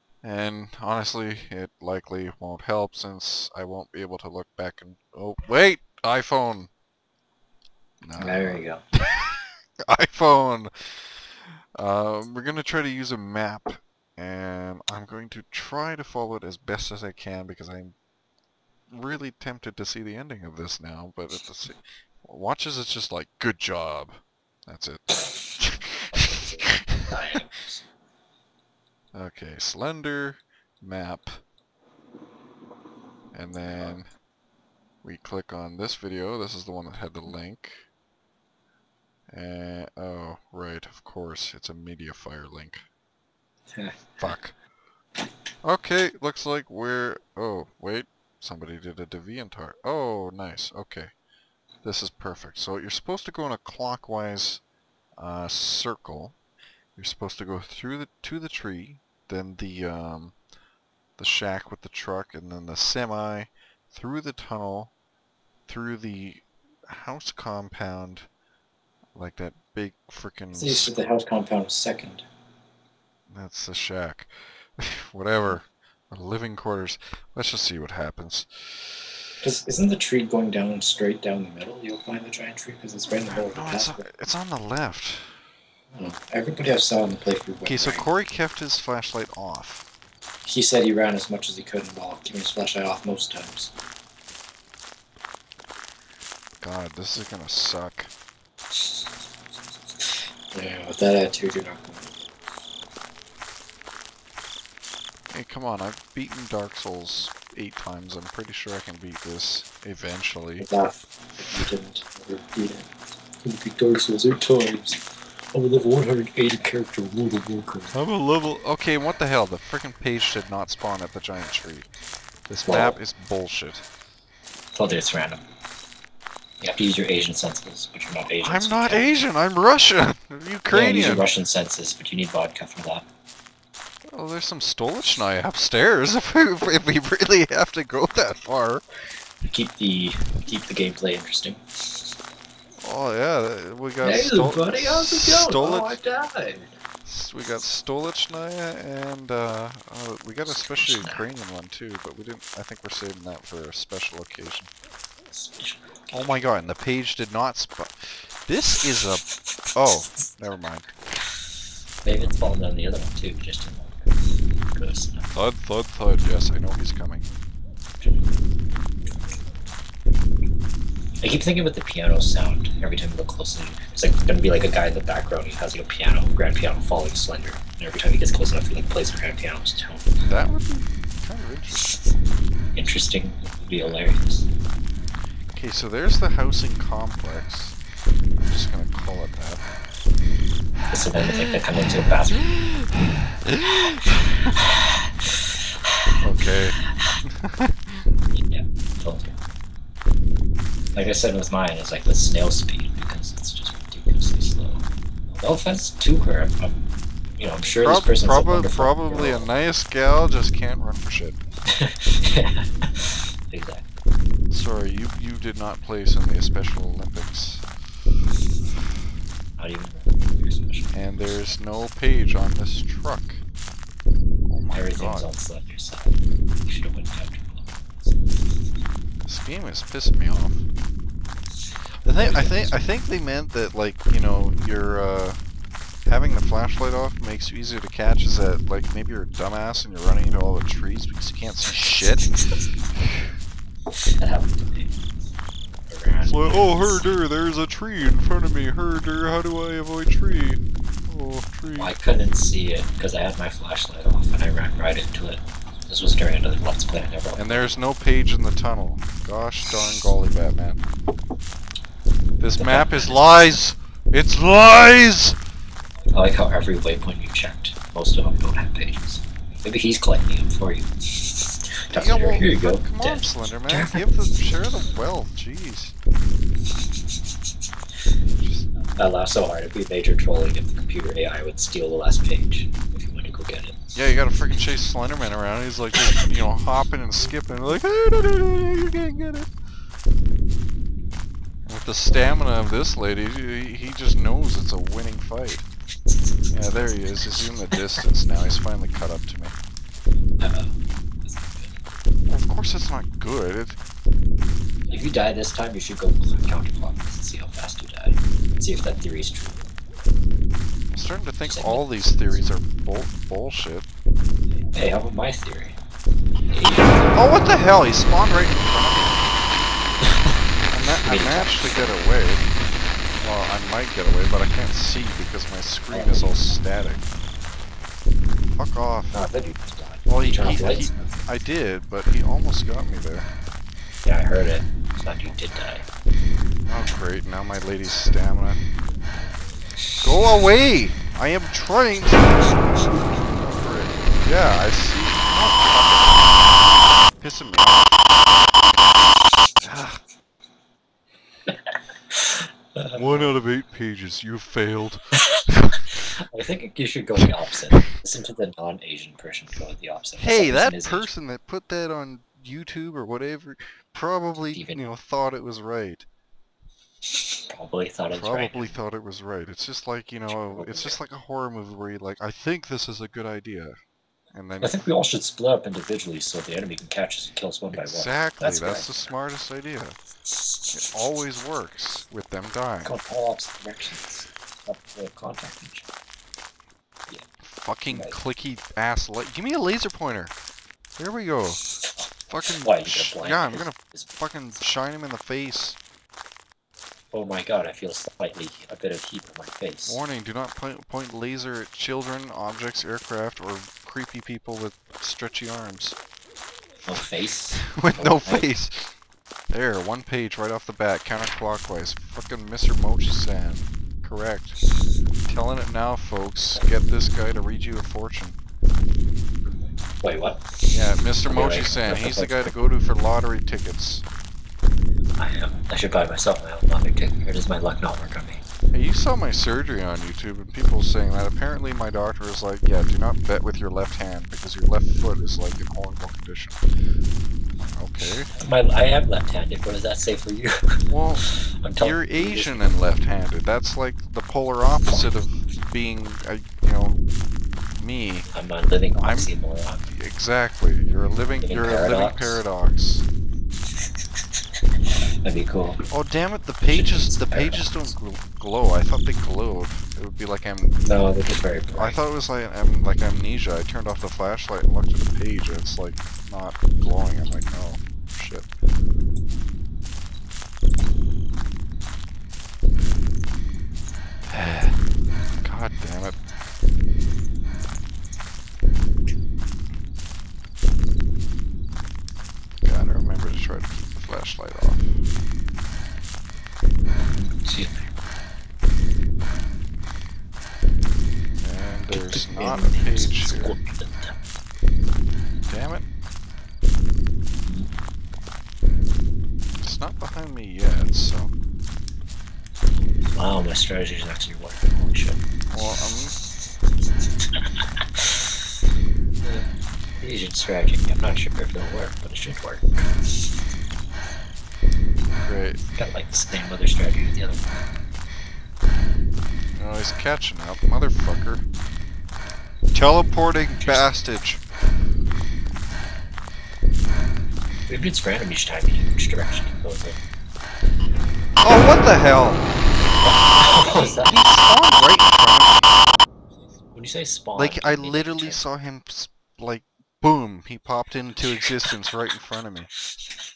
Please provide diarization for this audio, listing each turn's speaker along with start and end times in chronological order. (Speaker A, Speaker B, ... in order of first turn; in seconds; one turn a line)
Speaker A: 0.2-6.7
Speaker A: 8.0-11.2
Speaker B: 8.2-8.8
Speaker A: 11.7-17.9
Speaker A: 18.9-27.0
Speaker B: 26.0-27.8
Speaker A: 29.1-31.4
Speaker A: 33.3-34.1
Speaker B: 33.7-34.0
Speaker A: 35.0-37.9
Speaker A: 39.3-42.8
Speaker B: 43.7-44.3
Speaker A: 44.2-44.5
Speaker A: 45.6-51.1
Speaker A: 51.8-54.6
Speaker A: 55.2-56.4
Speaker A: 57.0-60.4
Speaker A: 61.2-64.9
Speaker A: 65.7-68.3
Speaker A: 69.2-71.0
Speaker B: 70.5-72.2
Speaker A: 73.3-79.1
Speaker B: 79.4-84.0
Speaker A: 83.1-85.4
Speaker B: 85.9-88.0
Speaker A: 87.6-89.8
Speaker B: 90.4-93.7
Speaker A: 96.6-98.1
Speaker B: 100.0-102.2
Speaker A: 105.3-110.7
Speaker B: 110.6-112.9
Speaker A: 111.4-111.7
Speaker B: 113.4-115.0
Speaker B: 115.5-118.0
Speaker A: 117.9-121.9
Speaker A: 122.5-123.8
Speaker B: 122.7-123.0
Speaker B: 124.7-125.4
Speaker B: 126.6-129.0
Speaker A: 128.4-131.3
Speaker B: 130.7-133.0
Speaker A: 134.1-138.8
Speaker B: 139.4-141.6
Speaker A: 142.8-146.0
Speaker B: 144.0-146.7
Speaker A: 147.0-154.7
Speaker B: 150.4-151.3
Speaker B: 155.3-156.3
Speaker A: 156.1-160.9
Speaker B: 162.0-164.1
Speaker A: 162.1-162.5
Speaker B: 164.7-165.3
Speaker A: 165.3-167.3
Speaker B: 171.2-180.1
Speaker A: 180.2-181.9
Speaker B: 182.7-184.5
Speaker A: 185.5-187.8
Speaker A: 188.3-189.6
Speaker B: 190.9-192.4
Speaker A: 192.5-194.5
Speaker A: 196.2-198.1
Speaker B: 198.3-199.3
Speaker B: 200.9-204.8
Speaker B: 205.3-206.8
Speaker B: 207.4-209.5
Speaker A: 207.8-211.4
Speaker B: 211.7-213.9
Speaker A: 214.5-217.7
Speaker B: 219.6-221.0
Speaker A: 220.9-223.4
Speaker A: 224.4-225.3
Speaker B: 224.7-228.3
Speaker A: 229.2-230.7
Speaker A: 232.0-235.4
Speaker B: 232.1-232.8
Speaker A: 236.0-242.3
Speaker B: 244.0-244.9
Speaker B: 245.9-247.1
Speaker A: 246.2-251.9
Speaker B: 251.7-257.7
Speaker A: 257.3-260.8
Speaker A: 262.4-265.4
Speaker B: 262.6-263.5
Speaker B: 266.1-274.3
Speaker A: 271.9-275.9
Speaker A: 278.4-278.7
Speaker B: 278.9-283.8
Speaker A: 283.9-289.5
Speaker A: 291.7-295.6
Speaker B: 296.5-297.2
Speaker A: 296.5-299.6
Speaker B: 300.4-301.8
Speaker A: 302.3-303.8
Speaker B: 304.9-309.7
Speaker A: 310.9-313.9
Speaker B: 311.4-312.4
Speaker B: 314.6-315.8
Speaker B: 316.5-317.3
Speaker A: 317.1-319.3
Speaker A: 320.7-322.5
Speaker B: 321.0-321.9
Speaker A: 323.2-327.1
Speaker B: 325.9-326.5
Speaker A: 328.5-329.2
Speaker B: 329.1-331.3
Speaker A: 330.1-333.3
Speaker B: 334.0-335.8
Speaker A: 336.7-338.6
Speaker A: 340.0-346.6
Speaker A: 347.2-348.1
Speaker A: 349.6-350.0
Speaker B: 351.5-353.3
Speaker A: 352.9-356.0
Speaker B: 356.3-361.1
Speaker A: 360.2-366.1
Speaker B: 364.5-364.8
Speaker B: 367.5-368.8
Speaker A: 368.1-373.8
Speaker B: 370.3-371.0
Speaker A: 374.3-374.9
Speaker B: 374.6-379.1
Speaker A: 377.7-380.0
Speaker B: 380.3-380.8
Speaker A: 380.7-383.0
Speaker B: 382.8-385.9
Speaker A: 387.4-390.3
Speaker B: 387.9-388.2
Speaker A: 391.0-391.6
Speaker B: 391.8-394.1
Speaker A: 392.3-395.8
Speaker B: 397.1-400.0
Speaker A: 399.9-406.0
Speaker B: 406.8-408.5
Speaker A: 407.5-408.9
Speaker A: 409.5-414.6
Speaker A: 415.3-418.4
Speaker B: 419.5-422.5
Speaker A: 420.7-424.0
Speaker B: 425.2-428.4
Speaker A: 428.7-436.6
Speaker A: 437.6-438.3
Speaker B: 438.3-442.7
Speaker A: 440.9-447.0
Speaker B: 444.9-445.2
Speaker A: 447.7-448.3
Speaker B: 448.3-449.9
Speaker A: 449.0-449.3
Speaker A: 449.9-453.1
Speaker B: 451.4-452.4
Speaker B: 455.2-455.8
Speaker A: 455.9-460.8
Speaker B: 456.7-457.9
Speaker B: 460.8-462.0
Speaker A: 461.7-468.5
Speaker A: 474.3-474.8
Speaker A: 475.4-476.2
Speaker A: 482.6-485.0
Speaker B: 486.9-487.9
Speaker A: 491.4-493.6
Speaker B: 491.9-494.1
Speaker A: 495.5-495.9
Speaker B: 497.4-497.7
Speaker A: 499.6-501.3
Speaker B: 503.1-505.2
Speaker A: 505.5-506.1
Speaker B: 507.3-508.4
Speaker B: 509.2-512.9
Speaker A: 515.1-515.6
Speaker B: 515.8-517.7
Speaker A: 519.5-521.4
Speaker A: 522.7-524.4
Speaker B: 523.5-524.0
Speaker B: 527.7-530.0
Speaker A: 531.4-532.5
Speaker B: 533.0-534.3
Speaker A: 533.6-535.8
Speaker B: 536.7-538.5
Speaker A: 537.3-542.7